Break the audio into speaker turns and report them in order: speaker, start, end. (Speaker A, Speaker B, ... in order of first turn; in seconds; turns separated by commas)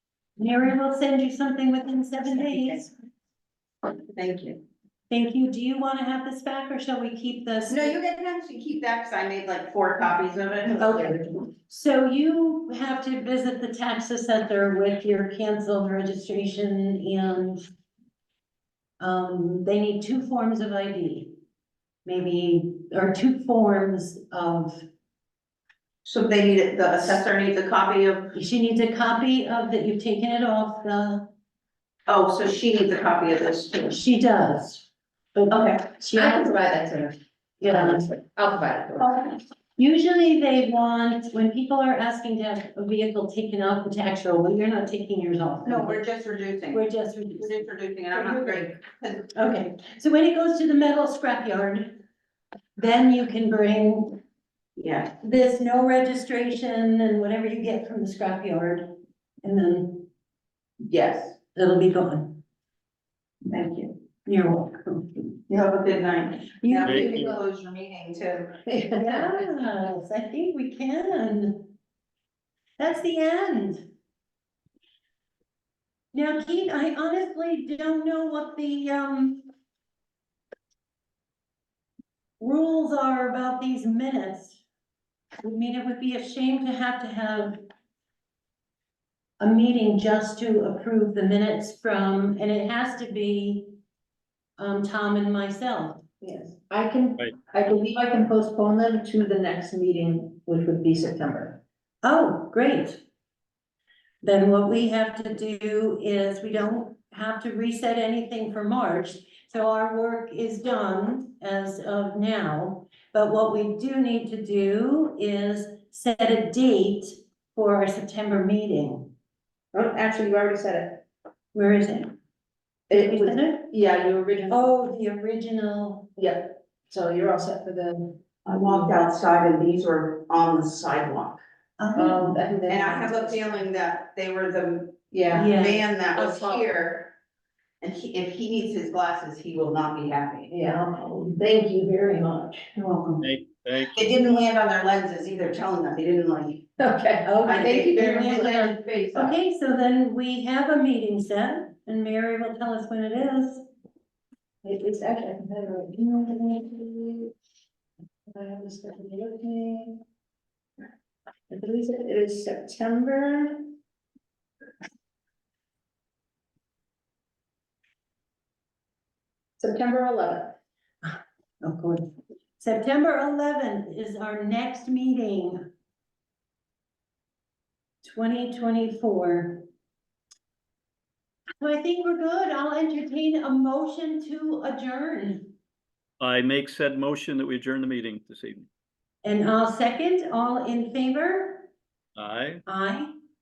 Speaker A: 0.4-2.9, Speaker B: 4.2-4.6, Speaker A: 5.1-8.0, Speaker B: 7.7-11.4, Speaker A: 10.8-17.6, Speaker A: 19.0-21.3, Speaker A: 22.1-24.8, Speaker B: 26.1-28.3, Speaker A: 28.3-31.3, Speaker B: 32.1-34.0, Speaker A: 33.9-36.5, Speaker B: 35.5-35.9, Speaker C: 36.1-39.1, Speaker A: 37.6-38.1, Speaker A: 39.0-46.1, Speaker B: 45.6-46.8, Speaker A: 46.7-48.7, Speaker B: 47.4-49.3, Speaker A: 49.3-51.9, Speaker A: 52.8-54.2, Speaker B: 54.8-55.1, Speaker A: 55.2-58.9, Speaker A: 59.4-60.1, Speaker B: 60.9-61.4, Speaker A: 61.5-62.4, Speaker B: 63.5-64.0, Speaker A: 64.3-65.3, Speaker B: 65.5-68.6, Speaker C: 66.7-67.4, Speaker D: 66.8-67.3, Speaker C: 68.7-69.5, Speaker A: 69.0-71.7, Speaker A: 72.8-73.8, Speaker A: 76.1-79.5, Speaker A: 82.4-84.6, Speaker A: 85.4-87.6, Speaker A: 89.4-93.7, Speaker A: 94.6-96.0, Speaker C: 96.2-101.6, Speaker A: 102.0-103.0, Speaker A: 104.2-119.1, Speaker C: 119.7-121.0, Speaker A: 121.5-122.1, Speaker C: 122.9-124.7, Speaker A: 122.9-123.7, Speaker A: 124.5-126.1, Speaker C: 126.2-128.9, Speaker B: 128.4-131.4, Speaker A: 131.8-132.4, Speaker C: 131.9-133.4, Speaker B: 132.7-137.2, Speaker C: 135.1-135.5, Speaker A: 135.3-136.6, Speaker B: 137.8-140.5, Speaker C: 140.5-142.7, Speaker B: 142.8-143.3, Speaker D: 143.2-144.1, Speaker B: 143.9-146.6, Speaker C: 146.8-148.4, Speaker A: 147.2-153.7, Speaker B: 147.4-149.3, Speaker C: 154.6-157.3, Speaker C: 158.3-160.0, Speaker C: 161.5-163.7, Speaker C: 169.6-170.6, Speaker A: 171.6-175.7, Speaker A: 178.0-179.7, Speaker A: 181.6-185.5, Speaker D: 186.2-188.7, Speaker A: 189.2-191.7, Speaker D: 192.2-192.6, Speaker A: 192.7-193.1